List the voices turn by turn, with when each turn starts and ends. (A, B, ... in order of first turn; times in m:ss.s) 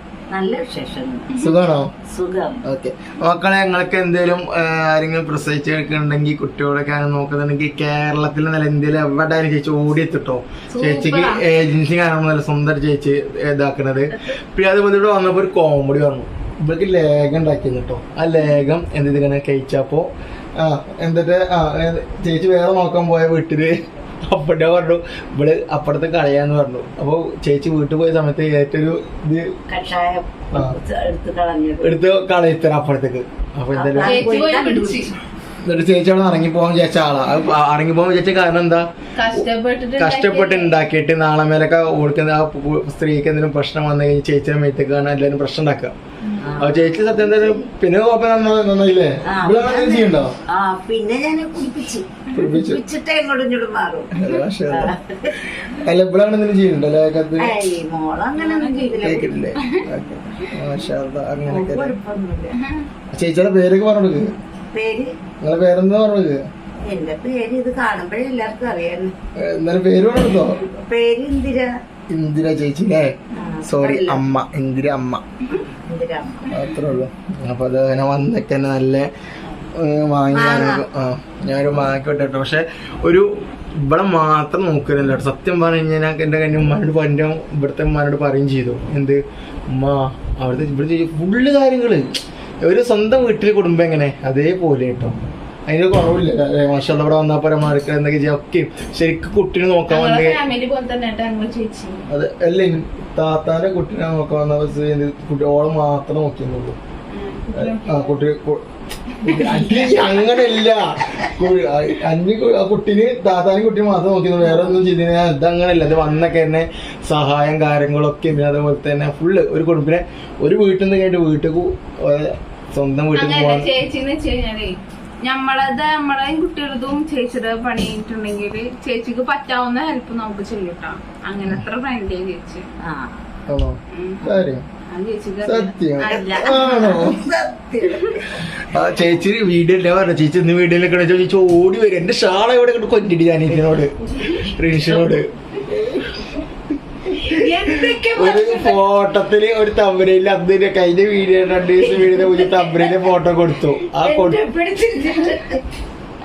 0:00.3-0:01.4 A
0:01.4-0:01.9 B
0:02.1-0:02.6 A
0:02.6-0:23.7 B
0:10.8-0:11.3 A
0:10.8-0:11.3 C
0:24.3-0:29.5 B
0:29.7-0:32.0 A
0:31.8-0:34.3 B
0:33.7-0:35.2 A
0:34.0-0:35.1 C
0:35.6-0:39.4 B
0:39.2-0:40.8 C
0:40.0-0:45.9 B
0:46.2-0:46.7 C
0:46.4-0:47.7 A
0:46.6-0:50.3 B
0:49.3-0:55.3 A
0:52.3-0:52.8 B
0:54.2-0:54.9 B
0:55.5-0:57.6 B
0:57.4-0:59.4 A
0:58.4-0:59.0 C
0:59.0-1:02.0 B
1:01.5-1:02.5 A
1:02.6-1:02.8 C
1:03.1-1:04.3 B
1:04.7-1:05.1 A
1:05.4-1:06.4 B
1:06.9-1:09.1 A
1:09.4-1:10.7 B
1:10.9-1:11.7 A
1:12.1-1:13.2 B
1:13.4-1:14.2 A
1:13.7-1:15.2 B
1:15.6-1:16.7 A
1:16.5-1:19.1 B
1:19.8-1:23.3 B
1:20.3-1:20.8 A
1:23.8-1:32.0 B
1:32.6-1:40.4 B
1:39.9-1:42.0 C
1:42.1-1:46.8 B
1:47.1-1:48.2 C
1:47.5-1:48.6 B
1:49.1-1:50.1 C
1:49.2-2:03.7 B
1:54.4-1:54.8 A
2:03.2-2:12.7 C
2:12.8-2:13.3 A
2:13.5-2:14.6 B
2:13.9-2:14.2 C
2:14.9-2:17.1 C
2:15.4-2:17.2 B
2:16.1-2:18.2 A
2:18.6-2:25.3 B
2:27.1-2:28.8 A
2:28.1-2:34.4 B
2:31.8-2:33.1 A
2:33.9-2:35.6 A